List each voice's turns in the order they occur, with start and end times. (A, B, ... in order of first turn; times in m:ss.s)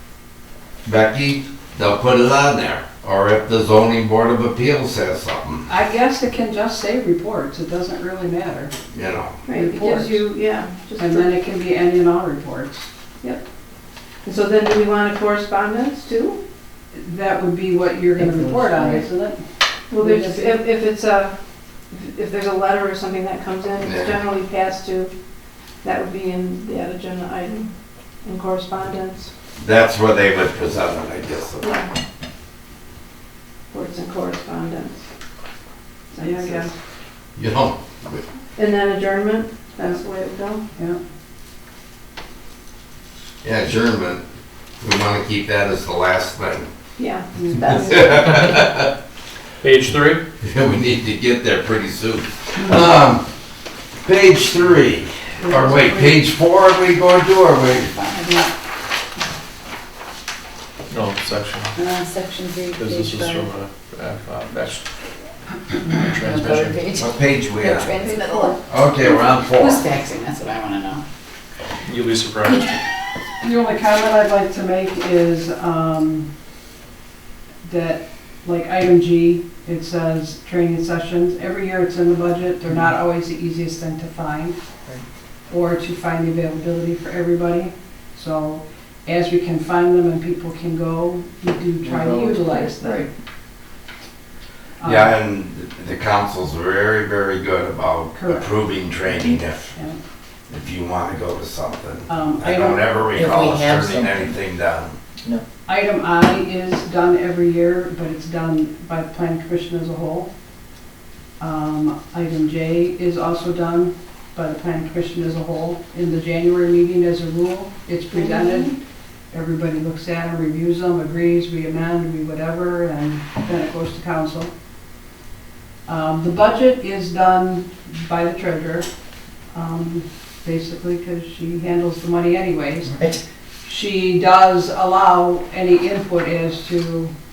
0:00.8-0:05.7 A
0:05.7-0:08.7 B
0:08.9-0:09.4 A
0:09.4-0:11.3 C
0:09.5-0:10.2 B
0:11.0-0:12.9 B
0:14.2-0:16.4 C
0:16.9-0:19.4 B
0:18.2-0:19.0 D
0:19.9-0:21.4 C
0:20.0-0:20.6 B
0:21.9-0:25.1 C
0:23.8-0:24.2 A
0:25.8-0:27.7 C
0:28.2-0:29.3 C
0:29.6-0:31.7 A
0:31.6-0:31.9 C
0:33.7-0:35.0 C
0:36.2-0:36.7 C
0:36.2-0:36.7 B
0:37.4-0:38.2 A
0:38.6-0:40.6 C
0:43.4-0:44.2 A
0:44.8-0:46.7 A
0:47.0-0:48.0 C
0:47.6-0:48.9 A
0:49.6-0:50.2 E
0:50.4-0:53.2 A
0:54.0-0:58.0 A
0:55.4-0:56.2 B
0:58.0-0:58.5 F
1:00.9-1:01.8 E
1:01.8-1:03.2 F
1:02.7-1:04.9 E
1:05.9-1:06.9 E
1:06.2-1:07.1 D
1:06.9-1:08.0 A
1:07.6-1:11.0 F
1:08.6-1:09.9 A
1:11.8-1:12.8 E
1:13.4-1:16.3 B
1:17.6-1:24.6 B
1:25.5-1:33.0 B
1:31.8-1:33.1 D
1:34.8-1:35.1 B
1:34.8-1:39.7 A
1:38.2-1:38.5 B
1:39.1-1:40.0 B
1:40.5-1:45.0 A
1:42.1-1:42.8 B
1:43.2-1:44.3 D
1:45.7-1:50.3 B
1:51.4-1:58.8 B
1:58.3-1:58.7 C
1:59.3-2:04.5 B
2:05.9-2:08.9 B
2:09.5-2:13.1 B
2:12.9-2:13.2 D
2:13.6-2:17.1 B